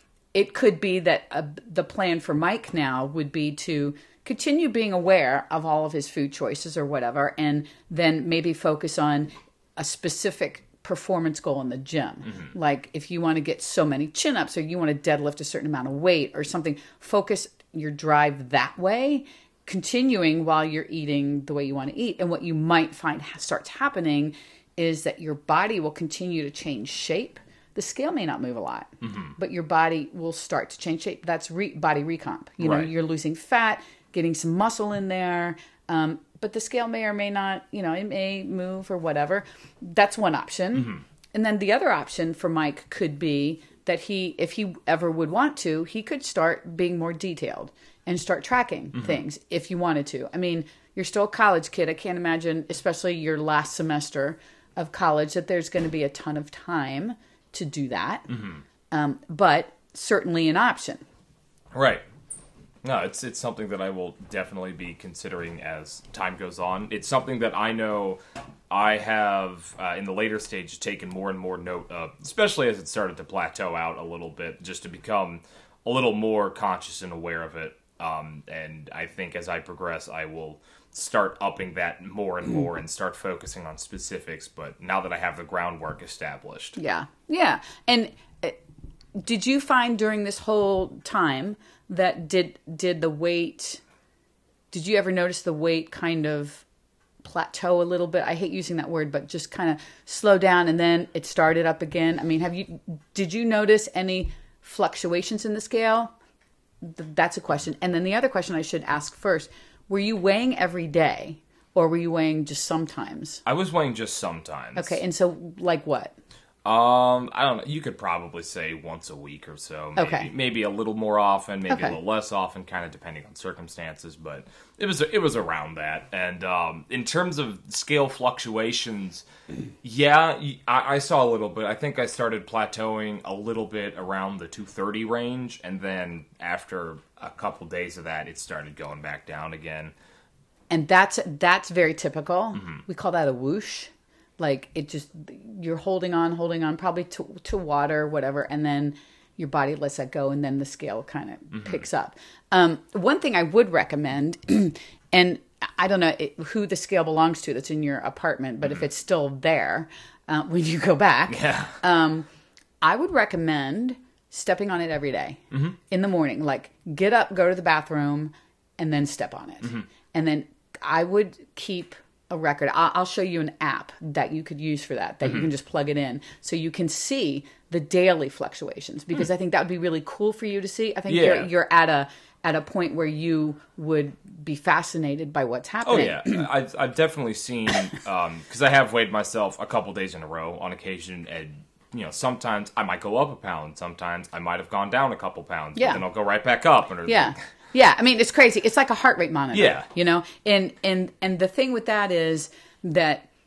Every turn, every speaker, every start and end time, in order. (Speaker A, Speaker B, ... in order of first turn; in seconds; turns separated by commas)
Speaker A: 0.3-58.3, Speaker B: 29.0-29.3, Speaker B: 32.6-32.9, Speaker B: 58.3-58.6, Speaker A: 58.9-61.0, Speaker B: 61.7-62.0, Speaker B: 62.8-68.2, Speaker B: 68.7-86.8, Speaker A: 86.8-88.6, Speaker A: 89.2-93.8, Speaker A: 94.7-96.7, Speaker A: 97.2-106.1, Speaker A: 106.8-113.4, Speaker B: 113.5-115.0, Speaker A: 114.7-116.1, Speaker B: 116.6-129.2, Speaker A: 120.0-120.3, Speaker A: 121.7-122.0, Speaker B: 129.8-139.9, Speaker A: 140.7-162.3, Speaker B: 161.3-161.8, Speaker A: 162.8-186.4, Speaker B: 181.1-181.5, Speaker B: 185.8-197.3, Speaker A: 195.8-196.0, Speaker A: 197.1-203.2, Speaker B: 199.5-199.9